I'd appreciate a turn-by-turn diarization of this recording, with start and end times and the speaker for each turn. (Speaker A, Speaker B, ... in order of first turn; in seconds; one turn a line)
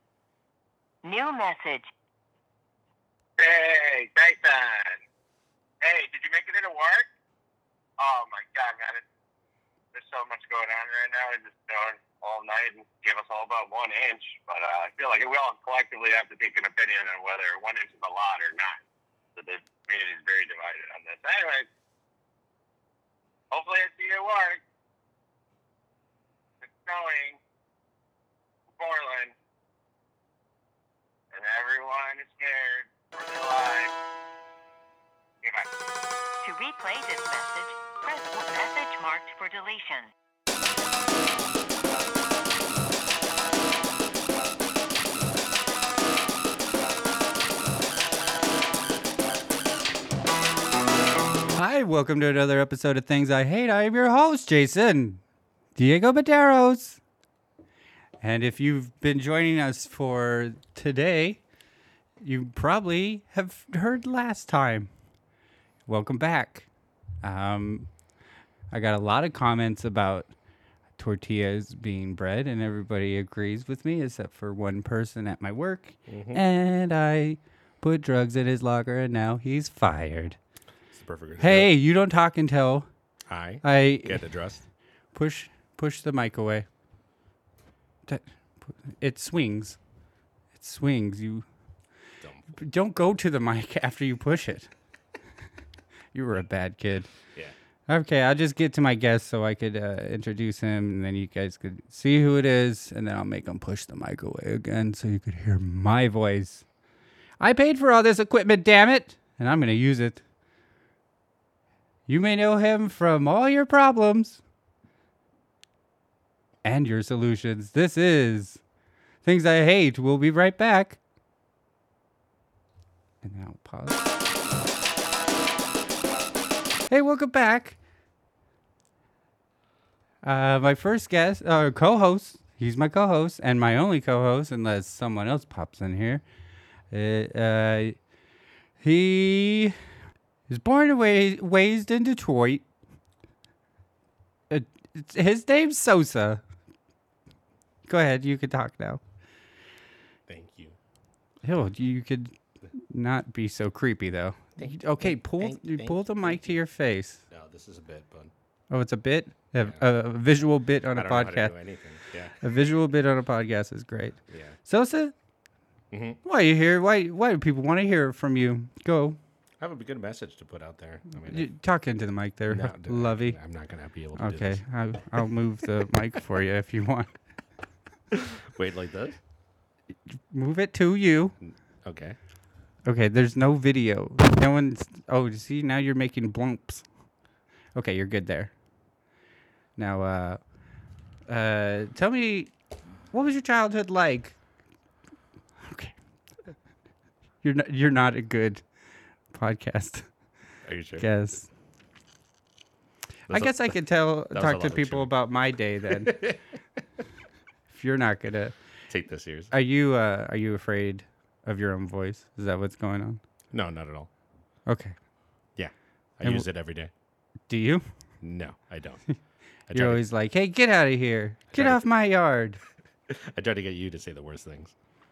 Speaker A: 1.0-1.9
Speaker B: 3.4-5.0
Speaker B: 5.8-7.1
Speaker B: 8.0-9.0
Speaker B: 9.9-18.8
Speaker B: 19.4-21.7
Speaker B: 23.5-24.6
Speaker B: 26.6-27.4
Speaker B: 28.8-29.3
Speaker B: 31.3-33.9
Speaker B: 35.4-35.7
Speaker A: 36.4-40.1
Speaker C: 51.5-55.2
Speaker C: 55.8-57.0
Speaker C: 58.2-61.4
Speaker C: 62.2-64.9
Speaker C: 65.9-66.7
Speaker C: 67.2-67.9
Speaker C: 68.7-70.3
Speaker C: 71.0-80.4
Speaker D: 76.1-76.4
Speaker D: 80.9-81.7
Speaker C: 81.4-82.9
Speaker D: 83.3-84.6
Speaker C: 83.6-84.2
Speaker C: 85.1-86.7
Speaker C: 88.9-89.8
Speaker C: 90.5-91.5
Speaker D: 92.2-92.5
Speaker C: 92.5-94.7
Speaker C: 96.1-97.1
Speaker C: 97.9-106.7
Speaker C: 107.4-110.2
Speaker C: 112.1-114.4
Speaker C: 116.6-118.6
Speaker C: 119.2-121.0
Speaker C: 123.2-124.0
Speaker C: 126.9-127.8
Speaker C: 130.2-136.2
Speaker C: 136.9-138.0
Speaker C: 138.8-139.8
Speaker C: 140.5-142.6
Speaker C: 144.5-146.4
Speaker C: 147.9-149.0
Speaker D: 150.3-150.8
Speaker C: 151.4-157.2
Speaker D: 154.6-156.5
Speaker D: 157.3-158.3
Speaker C: 158.7-161.5
Speaker D: 160.9-162.5
Speaker C: 162.4-165.1
Speaker D: 164.3-164.6
Speaker D: 165.9-166.2
Speaker C: 166.2-169.2
Speaker D: 169.6-171.5
Speaker C: 171.3-173.4
Speaker D: 172.5-174.6
Speaker C: 174.2-177.1
Speaker D: 178.1-179.2
Speaker C: 180.3-181.3
Speaker D: 181.4-182.2
Speaker C: 182.8-186.8
Speaker C: 187.8-188.5
Speaker C: 189.8-190.4
Speaker C: 191.3-192.5
Speaker C: 193.1-194.4
Speaker C: 195.6-195.9
Speaker C: 197.4-198.6
Speaker C: 199.3-200.1
Speaker D: 200.6-201.1
Speaker C: 201.0-201.5
Speaker D: 203.3-205.1
Speaker C: 203.3-206.3
Speaker D: 205.9-206.4
Speaker C: 207.7-208.6
Speaker D: 208.9-209.5
Speaker C: 209.5-213.2
Speaker D: 213.5-214.1
Speaker C: 214.7-214.9
Speaker D: 215.6-216.9
Speaker C: 217.5-217.8
Speaker D: 218.2-219.0
Speaker D: 219.7-220.0
Speaker C: 219.7-222.6
Speaker D: 221.5-221.8
Speaker D: 223.1-224.7